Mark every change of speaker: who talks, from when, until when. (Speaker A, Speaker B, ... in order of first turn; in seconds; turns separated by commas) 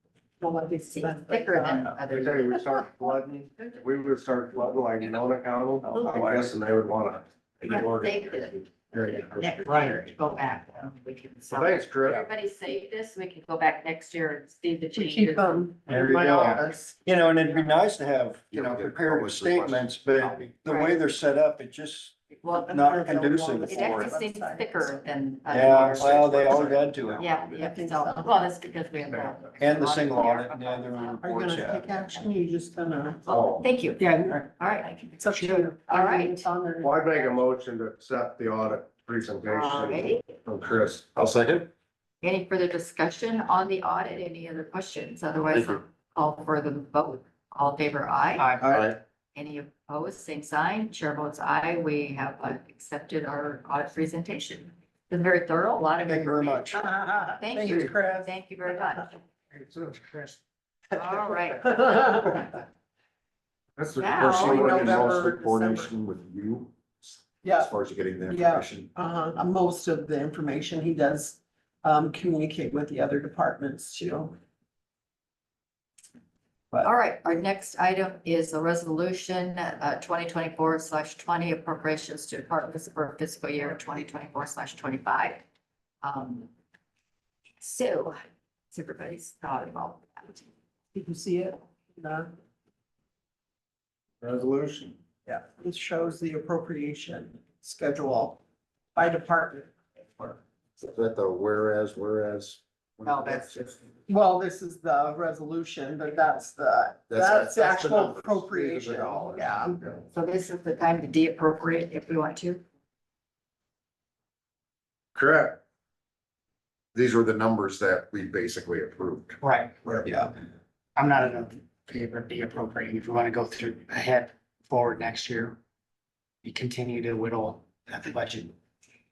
Speaker A: 0.4-2.0, Speaker B: 0.9-3.8, Speaker C: 2.1-8.5, Speaker D: 5.8-6.5, Speaker B: 7.7-15.7, Speaker C: 9.7-9.9, Speaker C: 11.5-12.3, Speaker A: 14.9-17.0, Speaker D: 15.9-22.1, Speaker E: 18.5-20.3, Speaker B: 20.7-21.0, Speaker B: 22.4-23.2, Speaker A: 22.6-25.0, Speaker D: 22.7-24.1, Speaker B: 23.7-31.2, Speaker D: 25.5-27.2, Speaker E: 25.7-27.6, Speaker A: 27.5-28.5, Speaker D: 29.6-31.9, Speaker A: 31.2-33.2, Speaker C: 33.3-33.6, Speaker B: 33.3-34.0, Speaker F: 34.0-34.5, Speaker B: 34.6-36.5, Speaker A: 35.2-37.4, Speaker F: 35.3-35.7, Speaker C: 36.8-41.2, Speaker B: 39.5-40.2, Speaker E: 41.1-41.7, Speaker B: 42.2-48.5, Speaker E: 45.5-45.8, Speaker F: 48.4-48.8, Speaker E: 48.6-49.0, Speaker B: 49.4-56.9, Speaker D: 56.1-56.8, Speaker A: 56.8-58.3, Speaker B: 57.4-59.2, Speaker F: 59.5-60.2, Speaker C: 59.6-60.3, Speaker B: 60.9-62.6, Speaker A: 61.3-62.4, Speaker C: 63.8-64.9, Speaker B: 64.0-64.7, Speaker E: 64.2-68.9, Speaker A: 64.2-65.9, Speaker A: 67.4-67.7, Speaker A: 68.2-74.4, Speaker B: 76.8-85.4, Speaker B: 86.0-86.5, Speaker B: 87.6-88.2, Speaker B: 88.7-90.5, Speaker A: 90.9-92.3, Speaker C: 94.2-95.0, Speaker A: 95.3-98.4, Speaker A: 99.0-100.4, Speaker E: 100.8-103.6, Speaker B: 103.0-103.8, Speaker A: 104.1-109.8, Speaker E: 107.1-110.0, Speaker B: 110.1-112.6, Speaker C: 115.2-115.6, Speaker E: 116.9-119.4, Speaker F: 119.4-120.3, Speaker F: 121.0-125.6, Speaker F: 126.4-128.5